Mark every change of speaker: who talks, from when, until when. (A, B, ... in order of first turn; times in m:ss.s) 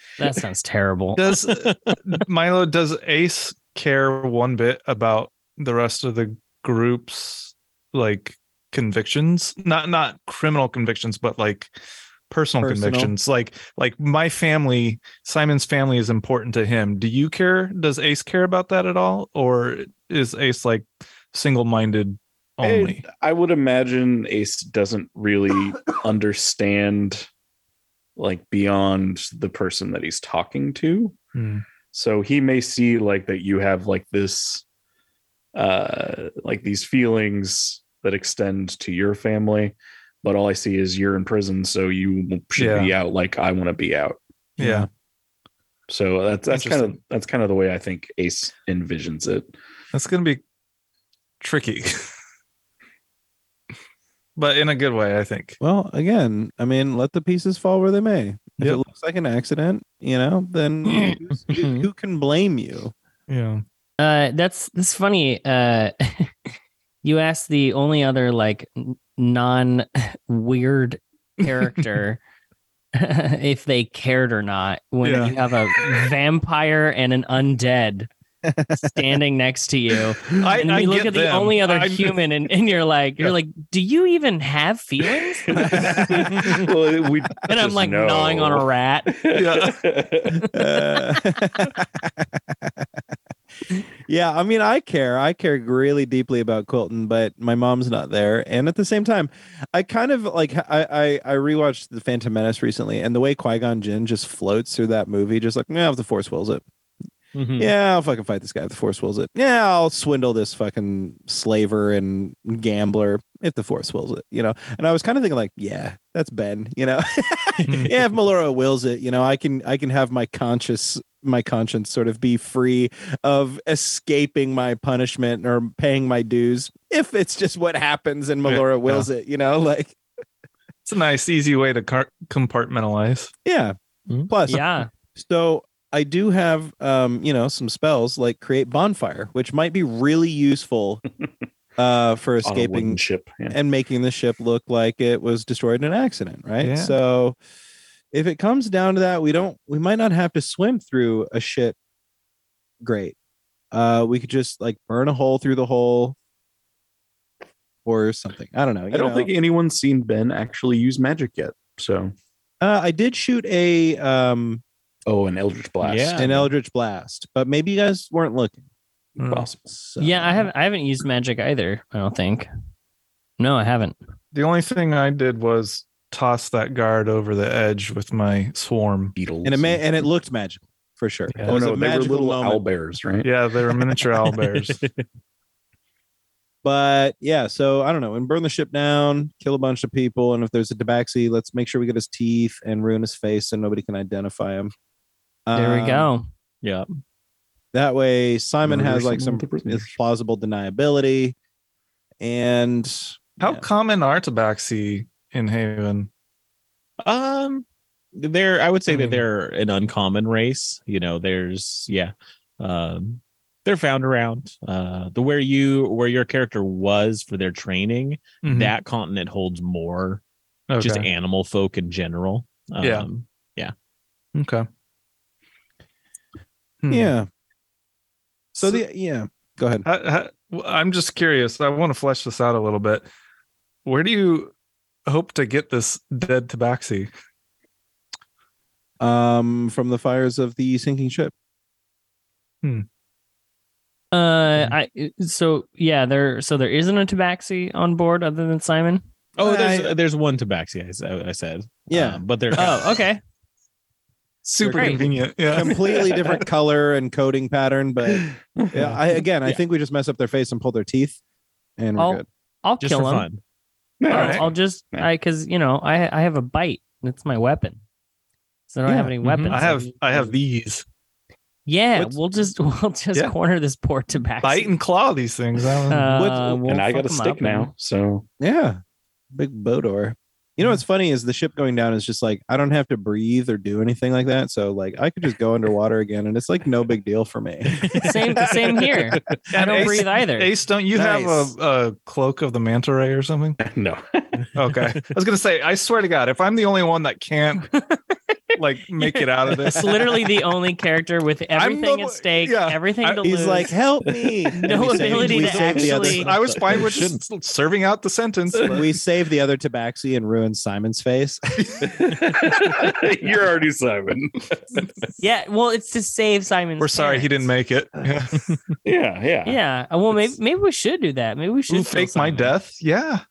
0:00.2-0:01.2 A
0:01.2-0:11.7 B
0:01.3-0:02.0 C
0:12.3-0:23.0 B
0:12.6-0:13.1 D
0:22.6-0:27.3 E
0:28.2-0:31.2 E
0:31.3-0:31.6 B
0:31.9-0:34.6 E
0:35.5-0:44.2 E
0:42.6-0:42.9 B
0:44.6-0:44.9 B
0:44.6-0:44.9 D
0:45.9-0:49.5 E
0:46.5-0:47.0 B
0:49.9-0:50.4 B
0:51.4-0:52.1 B
0:54.4-0:55.6 B
0:55.6-1:02.9 D
1:01.5-1:01.9 C
1:03.3-1:03.6 B
1:04.0-1:06.3 A
1:07.0-1:12.2 A
1:13.0-1:18.1 A
1:15.0-1:15.4 B
1:18.4-1:18.8 D
1:18.8-1:26.5 A
1:20.3-1:22.2 B
1:25.6-1:28.6 E
1:27.5-1:29.2 A
1:29.2-1:30.4 E
1:29.3-1:29.8 B
1:30.5-1:32.8 D
1:30.7-1:31.2 A
1:34.0-1:46.6 D
1:47.3-1:47.7 C
1:47.6-2:10.0 D
1:57.6-1:57.9 B
2:08.4-2:09.1 B
2:10.8-2:13.3 B
2:13.4-2:13.7 D
2:14.3-2:14.6 D
2:14.5-2:14.9 A
2:15.1-2:21.0 D
2:21.8-2:27.4 D
2:22.4-2:23.6 E
2:26.6-2:27.0 B
2:28.1-2:31.8 D
2:32.8-2:33.2 D
2:33.7-2:36.2 D
2:37.8-2:39.3 D
2:38.9-2:42.1 E
2:42.6-2:44.6 D
2:45.0-2:46.5 E
2:45.8-2:46.5 C
2:46.2-2:48.6 D
2:49.2-2:49.5 B
2:49.2-2:49.7 E
2:49.7-2:50.5 D
2:50.0-2:52.5 A
2:53.4-2:54.0 A
2:54.3-2:59.1 B
2:59.2-2:59.8 E
2:59.4-3:02.6 D
3:01.3-3:01.6 B
3:01.4-3:03.3 E
3:03.2-3:04.8 B
3:03.9-3:05.0 C
3:06.6-3:14.7 D
3:15.5-3:16.1 D
3:15.5-3:16.2 A
3:17.7-3:21.4 D
3:18.6-3:19.9 E
3:22.2-3:23.6 D
3:23.4-3:26.1 B
3:27.0-3:40.2 C
3:28.9-3:29.2 B
3:38.4-3:38.7 B
3:40.7-3:41.1 B
3:40.8-3:43.7 C
3:42.8-3:43.1 B
3:44.3-3:44.6 B
3:46.8-3:47.1 B
3:46.9-3:47.3 D
3:48.6-3:49.8 D
3:49.8-3:53.1 B
3:53.8-3:54.5 B
3:55.1-3:57.1 B
3:59.0-4:01.3 D
4:04.1-4:09.0 A
4:09.4-4:12.8 C
4:09.4-4:09.9 D
4:11.9-4:12.2 D
4:12.5-4:13.2 A
4:14.4-4:15.7 B
4:14.6-4:15.0 A
4:14.8-4:15.0 C
4:15.5-4:21.2 D
4:18.0-4:18.9 E
4:21.8-4:22.2 D
4:22.0-4:23.3 A
4:22.8-4:23.4 C
4:24.0-4:25.1 E
4:24.1-4:27.8 A
4:24.1-4:24.5 B
4:28.7-4:30.3 A
4:28.8-4:29.1 D
4:29.2-4:29.7 C
4:29.5-4:30.8 B
4:31.6-4:34.7 A
4:34.4-4:36.2 B
4:35.9-4:37.7 A
4:36.2-4:36.6 D
4:36.6-4:38.2 E
4:38.4-4:38.8 D
4:39.3-4:47.9 D
4:47.8-4:48.1 C
4:47.9-4:51.5 A
4:49.5-4:53.6 B
4:53.6-4:54.4 E
4:54.6-4:57.7 B
4:58.6-5:00.3 B
4:59.0-5:03.7 A
5:01.5-5:03.3 B
5:03.2-5:07.0 D
5:04.1-5:04.4 E
5:04.6-5:06.3 A
5:04.8-5:07.2 C
5:05.2-5:08.9 B
5:08.5-5:08.9 E
5:08.7-5:11.8 D
5:11.6-5:11.9 B
5:11.8-5:15.0 E
5:15.2-5:17.5 A
5:16.8-5:18.4 B
5:18.8-5:19.6 E
5:19.4-5:22.5 A
5:21.7-5:23.2 B